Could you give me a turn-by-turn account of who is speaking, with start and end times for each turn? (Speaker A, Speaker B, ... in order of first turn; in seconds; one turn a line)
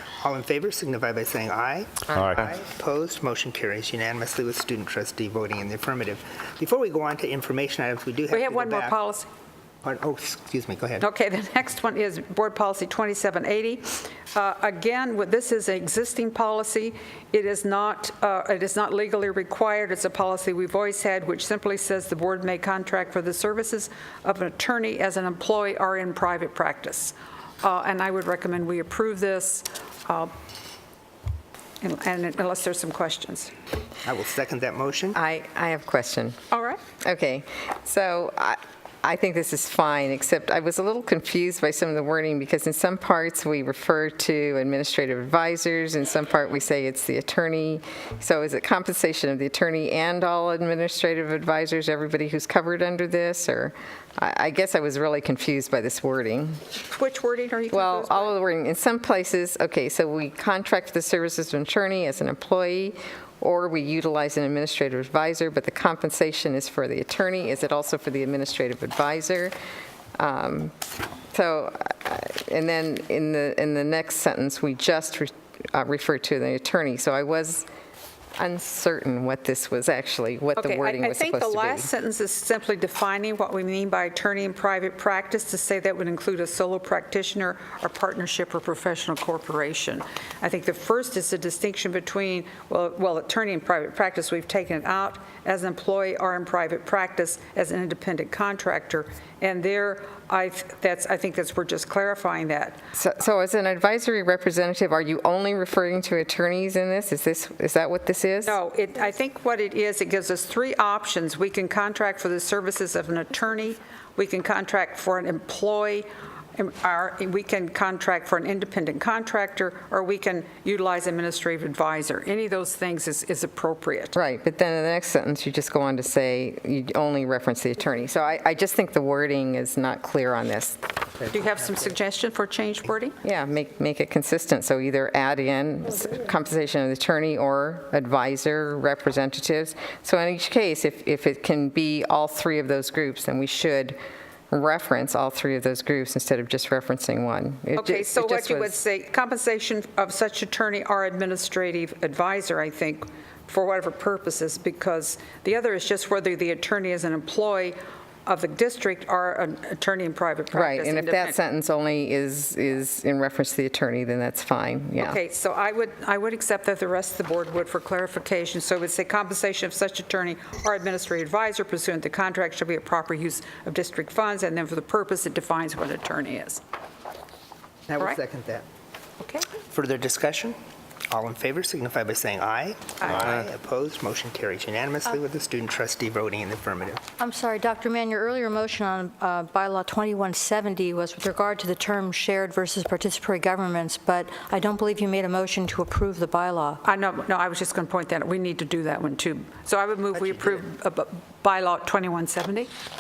Speaker A: 0.2-9.0
Speaker B: 8.3-9.3
Speaker A: 9.8-11.1
Speaker B: 11.0-30.3
Speaker B: 31.8-33.5
Speaker A: 34.0-35.2
Speaker C: 35.1-36.4
Speaker B: 36.5-36.8
Speaker C: 37.0-56.6
Speaker B: 56.8-58.3
Speaker C: 57.7-69.5
Speaker C: 70.2-70.7
Speaker C: 71.3-77.7
Speaker C: 78.4-81.9
Speaker B: 80.6-102.8
Speaker C: 102.9-108.6
Speaker B: 108.4-124.2
Speaker C: 124.1-130.8
Speaker B: 131.3-133.2
Speaker C: 133.2-144.0
Speaker C: 144.5-148.7
Speaker B: 147.8-161.4
Speaker C: 160.5-165.2
Speaker B: 165.0-176.6
Speaker A: 177.9-178.7
Speaker B: 179.2-179.5
Speaker A: 179.7-180.6
Speaker A: 181.1-187.0
Speaker D: 187.2-196.8
Speaker B: 196.8-202.7
Speaker A: 200.1-200.7